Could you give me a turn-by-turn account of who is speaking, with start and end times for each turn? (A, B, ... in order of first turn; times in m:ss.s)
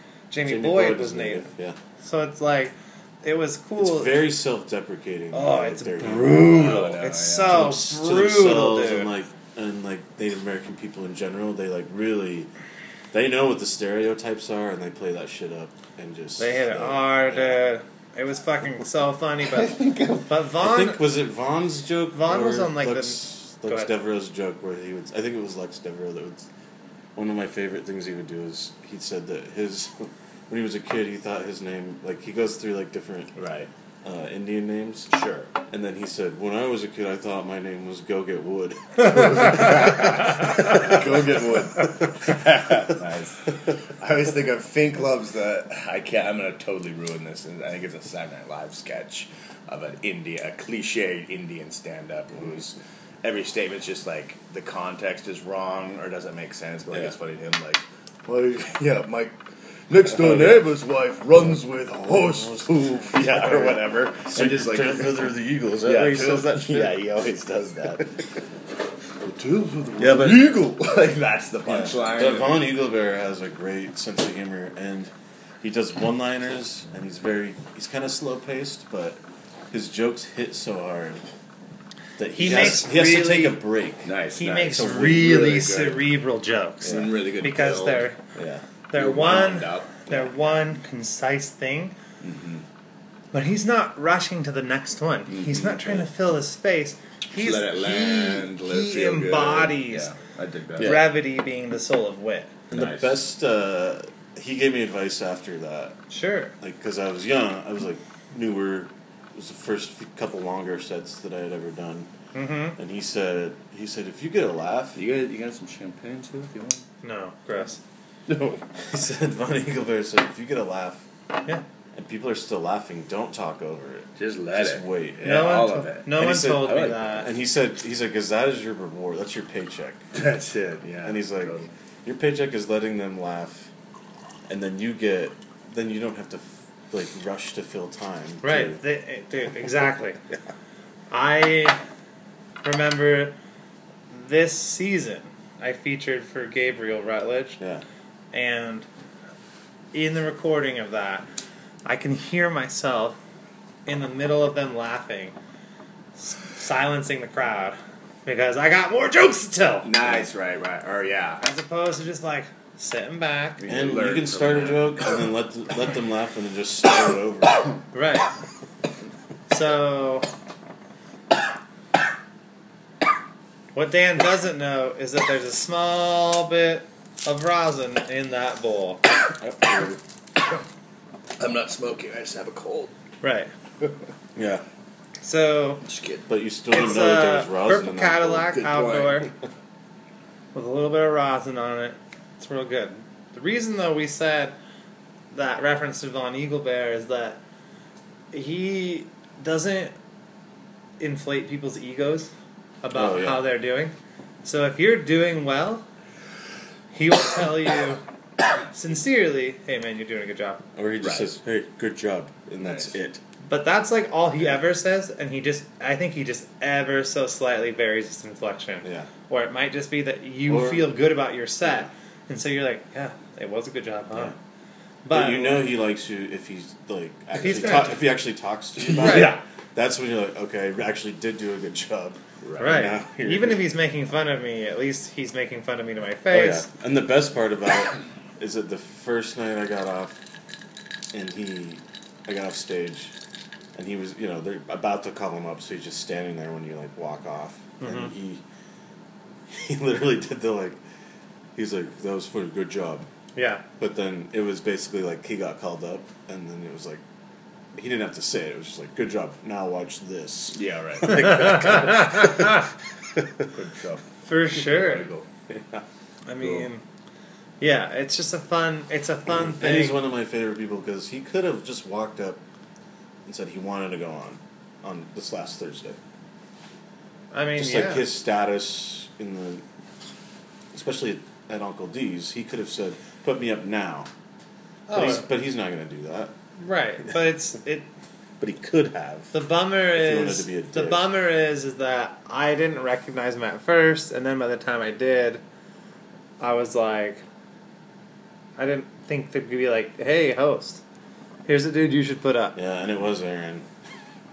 0:00.3-0:01.5 A
0:00.4-0:01.8 B
0:02.0-0:04.2 A
0:03.8-0:06.8 B
0:05.3-0:09.1 A
0:06.2-0:07.7 C
0:07.5-0:12.5 B
0:13.1-0:17.6 B
0:16.4-0:21.0 A
0:19.5-0:20.3 C
0:20.6-0:26.5 B
0:22.1-0:23.9 A
0:27.2-0:33.3 B
0:33.4-0:33.7 C
0:34.0-0:35.1 B
0:35.1-0:35.5 C
0:35.7-0:41.0 B
0:39.0-0:59.4 C
0:40.5-0:40.8 A
0:59.9-1:05.3 C
1:00.1-1:00.7 B
1:02.1-1:07.0 B
1:05.8-1:08.4 C
1:09.2-1:12.6 C
1:10.0-1:10.6 B
1:11.7-1:19.2 B
1:19.7-1:21.2 B
1:22.2-1:24.1 B
1:22.4-1:23.6 A
1:24.0-1:26.0 C
1:24.4-1:28.2 A
1:24.7-1:25.4 B
1:26.8-1:27.1 B
1:26.8-1:28.1 C
1:28.4-1:28.6 B
1:28.9-1:32.0 A
1:29.0-1:30.2 C
1:32.2-1:32.6 C
1:33.3-1:40.1 A
1:35.3-1:36.0 C
1:37.3-1:41.0 C
1:40.8-1:41.1 B
1:40.8-1:42.6 A
1:42.7-1:43.1 C
1:42.7-1:46.0 B
1:46.1-1:46.5 A
1:46.6-1:52.1 B
1:52.3-1:52.8 A
1:52.8-1:55.0 B
1:55.0-1:56.8 C
1:57.0-1:57.8 A
1:58.3-1:58.6 C
1:58.8-2:01.0 B
2:01.9-2:05.4 B
2:04.2-2:07.1 C
2:05.2-2:07.3 A
2:06.2-2:10.0 B
2:10.1-2:11.7 C
2:11.0-2:13.7 B
2:14.5-2:18.8 B
2:18.4-2:20.2 A
2:21.1-2:21.8 A
2:22.6-2:23.3 A
2:24.1-2:27.6 A
2:28.3-2:28.9 A
2:29.9-2:31.3 A
2:31.9-2:33.2 A
2:33.9-2:35.4 A
2:36.2-2:39.9 A
2:39.8-2:41.4 C
2:41.4-2:43.6 A
2:43.6-2:45.2 C
2:43.7-2:47.7 B
2:47.9-2:48.3 A
2:49.5-2:50.3 A
2:53.7-2:59.0 A
2:59.4-3:00.0 B
3:01.4-3:02.9 C
3:03.2-3:03.5 A
3:04.4-3:04.6 B
3:05.2-3:05.8 A
3:05.8-3:06.3 C
3:06.3-3:08.5 B
3:06.7-3:09.3 A
3:08.5-3:09.2 C
3:10.5-3:14.6 A
3:15.3-3:17.4 A
3:18.3-3:19.9 A
3:21.0-3:22.3 A
3:22.8-3:25.8 A
3:23.0-3:23.4 B
3:26.9-3:28.0 A
3:28.7-3:30.6 A
3:30.8-3:33.2 B
3:31.0-3:31.3 C
3:32.6-3:32.9 C
3:33.5-3:44.3 A
3:38.8-3:39.1 B
3:40.5-3:40.9 B
3:45.0-3:45.6 A
3:45.1-3:53.6 B
3:47.4-3:48.0 A
3:48.8-3:49.4 C
3:49.0-3:49.4 A
3:52.4-3:52.8 C
3:52.6-3:56.7 A
3:56.3-4:00.2 B
4:01.1-4:03.1 B
4:03.8-4:08.4 B
4:07.8-4:08.1 A
4:09.5-4:10.8 B
4:11.6-4:13.1 B
4:13.4-4:13.6 A
4:13.8-4:17.0 B
4:17.8-4:23.5 B
4:20.6-4:21.6 C
4:21.1-4:22.7 A
4:23.5-4:25.3 C
4:24.2-4:25.1 A
4:25.5-4:25.8 B
4:26.3-4:26.8 A
4:27.6-4:30.0 A
4:29.3-4:32.4 B
4:33.3-4:36.0 B
4:37.3-4:38.0 A
4:37.6-4:39.6 B
4:40.7-4:44.1 B
4:44.9-4:45.2 A
4:44.9-4:46.3 B
4:46.6-4:47.9 A
4:48.4-4:49.3 B
4:49.3-4:55.4 A
4:50.0-4:51.0 B
4:56.4-4:57.2 A
4:58.6-5:00.8 A
5:01.5-5:02.6 A
5:02.6-5:03.7 B